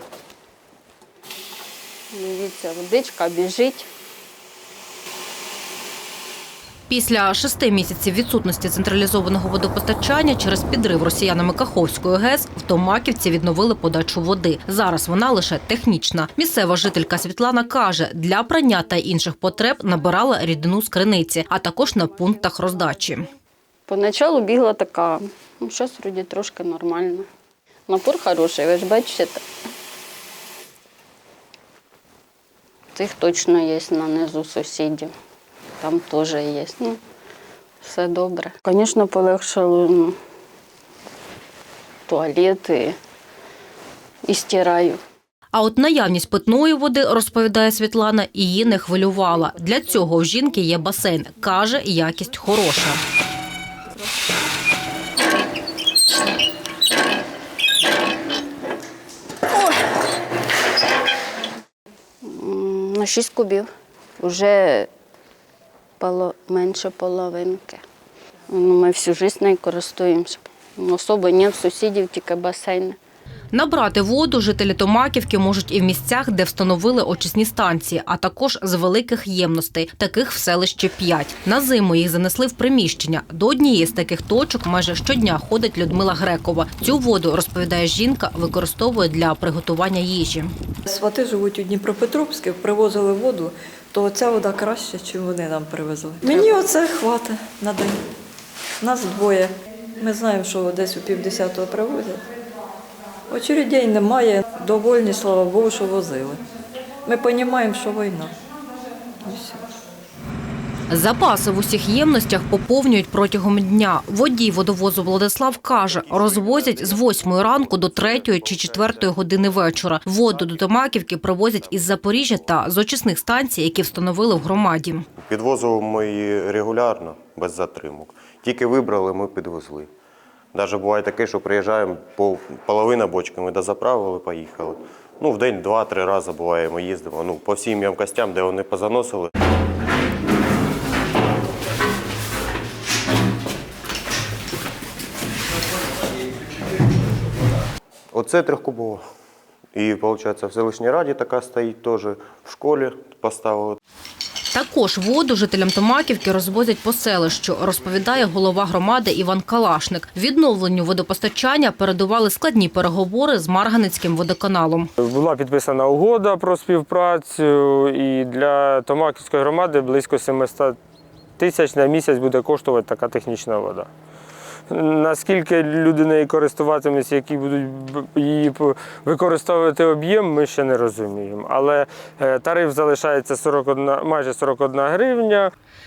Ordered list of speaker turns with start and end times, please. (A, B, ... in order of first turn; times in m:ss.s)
0:02.1-0:03.9 A
0:06.9-0:23.3 B
0:23.9-0:27.3 A
0:27.9-0:29.4 A
0:32.9-0:35.1 A
0:35.8-0:37.0 A
0:37.8-0:40.2 A
0:42.1-0:43.0 A
0:44.3-0:45.0 A
0:45.5-0:53.0 B
1:02.2-1:04.9 A
1:06.0-1:07.8 A
1:08.5-1:13.0 A
1:13.5-1:30.5 B
1:30.9-1:38.0 C
1:38.8-1:42.3 C
1:43.3-1:46.4 C
1:47.0-1:48.4 C
1:49.2-1:49.7 C
1:50.9-2:05.0 B
1:55.6-1:59.6 D
2:00.3-2:02.6 D
2:05.3-2:09.9 D
2:10.5-2:19.3 D
2:28.1-2:29.0 D
2:29.7-2:33.8 D
2:34.5-2:44.9 B
2:45.0-2:50.8 E
2:51.4-2:53.9 E
2:54.7-3:05.5 E